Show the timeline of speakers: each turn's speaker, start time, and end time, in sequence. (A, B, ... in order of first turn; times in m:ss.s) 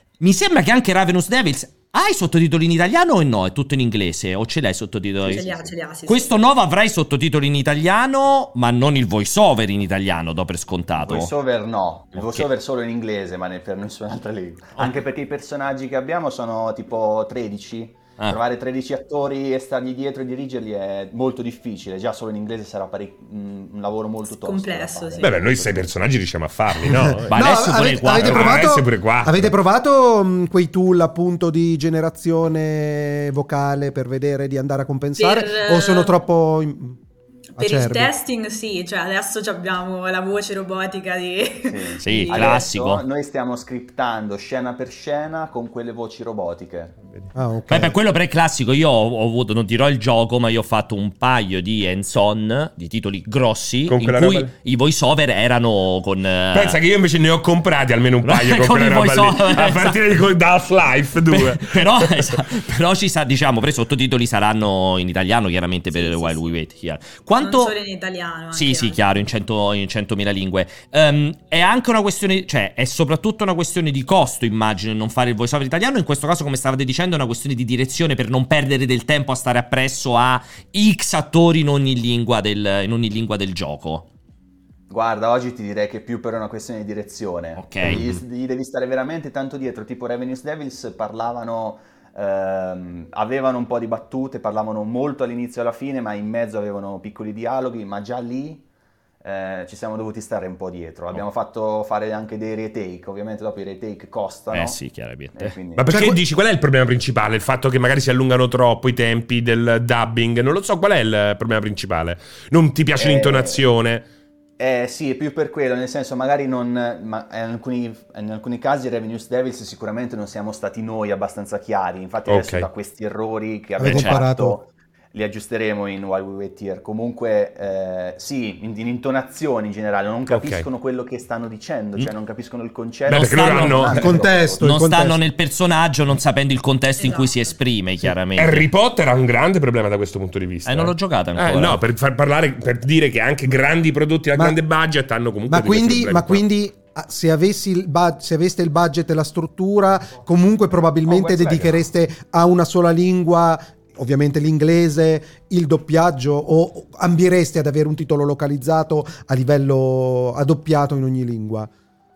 0:00.2-0:05.5 A
0:05.2-0:05.7 B
0:05.3-0:06.4 C
0:06.1-0:11.3 A
0:11.0-0:25.9 B
0:12.2-0:12.5 A
0:24.3-0:25.4 C
0:25.2-0:27.3 D
0:26.9-0:37.0 E
0:27.3-0:28.6 A
0:28.1-0:29.5 D
0:35.2-0:36.2 C
0:37.6-0:38.1 E
0:37.6-0:42.6 C
0:41.6-0:47.0 B
0:42.0-0:43.0 A
0:47.4-0:48.0 E
0:47.7-0:56.8 A
0:53.9-0:54.5 D
0:56.5-1:02.4 D
0:58.2-1:00.0 A
1:01.3-1:07.7 A
1:05.9-1:06.5 C
1:07.4-1:09.0 C
1:08.5-1:24.1 A
1:24.9-1:38.6 B
1:27.6-1:28.0 A
1:27.9-1:28.2 D
1:39.2-1:44.8 B
1:44.5-1:45.6 A
1:45.4-1:45.9 B
1:45.8-1:54.1 D
1:45.9-1:46.2 E
1:53.0-1:53.6 B
1:54.6-2:14.8 B
2:02.3-2:02.7 D
2:03.8-2:04.6 E
2:03.8-2:04.2 A
2:10.3-2:10.7 D
2:13.1-2:14.0 A
2:13.1-2:14.1 D
2:14.0-2:15.2 E
2:14.6-2:18.7 A
2:17.0-2:17.5 C
2:18.3-2:26.4 D
2:20.6-2:21.8 A
2:25.5-2:41.7 E
2:31.1-2:31.8 B